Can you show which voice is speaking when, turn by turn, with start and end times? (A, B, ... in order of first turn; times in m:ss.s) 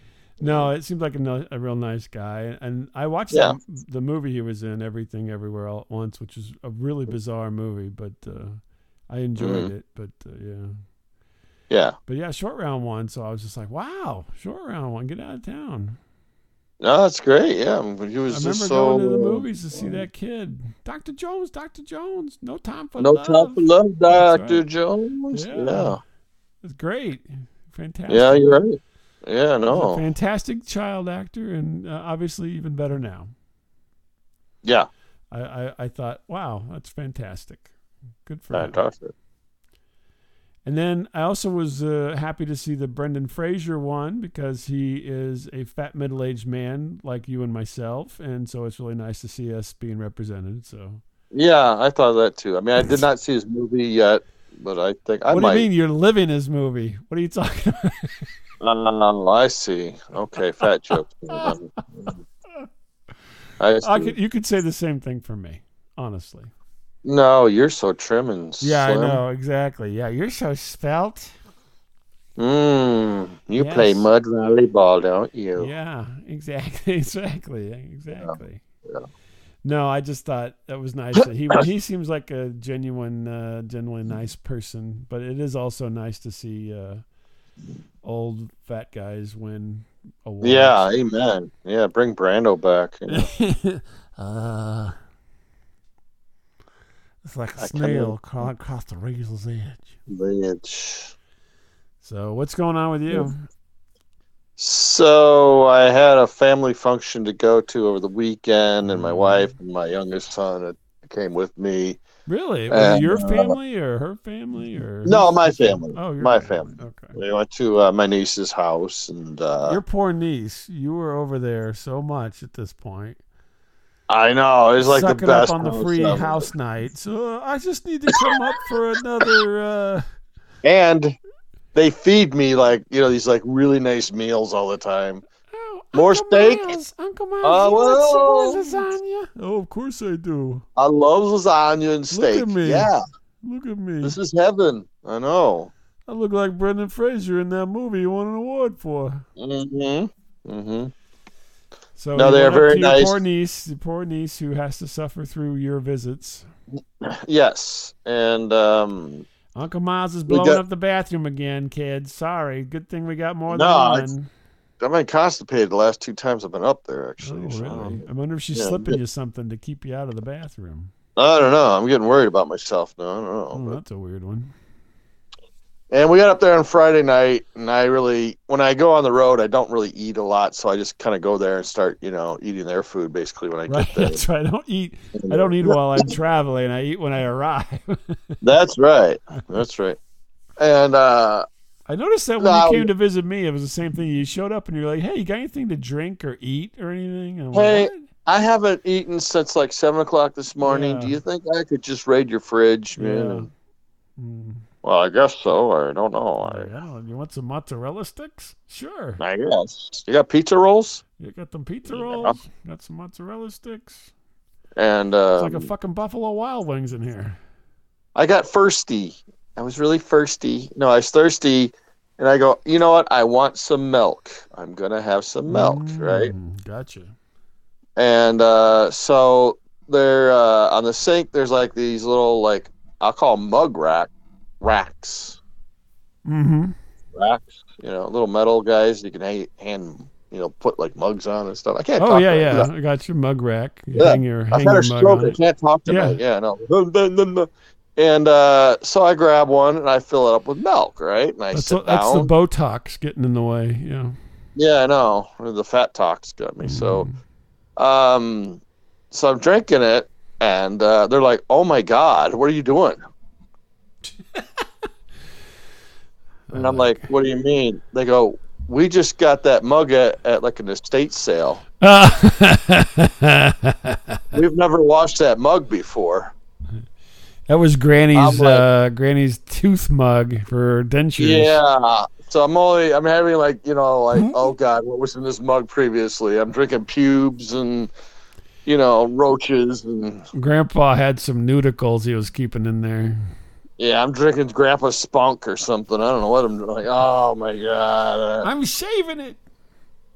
0:00.4-0:10.8 A
0:00.4-0:00.7 B
0:03.3-0:03.6 B
0:09.4-0:09.7 B
0:11.7-0:12.0 B
0:12.1-0:16.0 A
0:16.8-0:20.0 B
0:18.3-0:24.6 A
0:23.0-0:26.0 B
0:25.3-0:26.0 A
0:26.6-0:28.5 A
0:28.1-0:30.0 B
0:29.7-0:33.3 A
0:35.3-0:37.7 A
0:38.2-0:38.8 A
0:38.5-0:39.1 B
0:40.6-0:51.0 A
0:51.3-0:55.7 B
0:55.3-0:58.3 A
0:58.6-1:02.2 B
1:00.9-1:01.6 A
1:03.6-1:04.1 B
1:03.8-1:06.5 A
1:07.0-1:09.2 B
1:08.6-1:11.3 A
1:12.4-1:15.7 B
1:13.6-1:14.1 A
1:15.6-1:18.6 A
1:19.6-1:27.0 A
1:28.0-1:30.9 A
1:30.4-1:33.3 B
1:33.1-1:35.0 A
1:37.2-1:39.9 A
1:37.6-1:38.2 B
1:40.1-1:41.1 B
1:42.0-1:43.5 A
1:44.6-1:52.0 B
1:48.8-1:49.5 A
1:52.3-1:57.2 A
1:52.7-1:53.6 B
1:55.0-1:59.8 B
1:59.6-2:03.2 A
2:04.1-2:06.5 B
2:04.8-2:10.0 A
2:10.6-2:11.2 B
2:11.8-2:15.2 B
2:15.5-2:20.6 A
2:15.9-2:16.7 B
2:17.4-2:18.8 B
2:20.8-2:23.0 B
2:22.1-2:24.2 A
2:24.0-2:25.7 B
2:26.1-2:29.2 A
2:29.4-2:30.9 B
2:32.0-2:36.5 A
2:32.2-2:33.2 B
2:37.0-2:39.2 B
2:39.6-2:44.3 A
2:40.3-2:40.6 B
2:43.5-2:44.1 B
2:44.8-2:48.0 B
2:47.2-2:50.9 A
2:48.6-2:49.0 B
2:51.2-2:53.8 B
2:53.5-2:54.5 A
2:55.9-3:04.2 B
3:03.7-3:08.4 A
3:05.2-3:06.1 B
3:08.4-3:10.0 B
3:10.6-3:11.5 B
3:11.9-3:18.1 A
3:12.4-3:12.9 B
3:17.5-3:23.5 B
3:20.6-3:21.2 A
3:23.0-3:23.5 A
3:24.2-3:24.6 A
3:24.8-3:26.7 B
3:26.4-3:29.2 A
3:29.2-3:31.0 B
3:31.2-3:34.1 A
3:31.9-3:32.4 B
3:34.8-3:35.7 B
3:35.4-3:37.4 A
3:38.2-3:46.3 B
3:45.5-3:47.1 A
3:48.0-3:54.1 B
3:54.6-3:55.4 B
3:56.2-3:56.8 A
3:57.2-4:02.7 B
4:02.0-4:06.2 A
4:04.0-4:12.3 B
4:11.5-4:14.2 A
4:14.6-4:17.1 B
4:16.6-4:17.1 A
4:17.8-4:23.0 B
4:26.5-4:27.1 A
4:26.5-4:31.6 B
4:31.8-4:34.2 A
4:34.3-4:36.3 B
4:37.5-4:41.6 A
4:38.1-4:38.7 B
4:41.2-4:47.9 B
4:48.7-4:50.2 B
4:50.3-4:53.2 A
4:53.8-4:58.5 B
4:58.4-4:59.4 A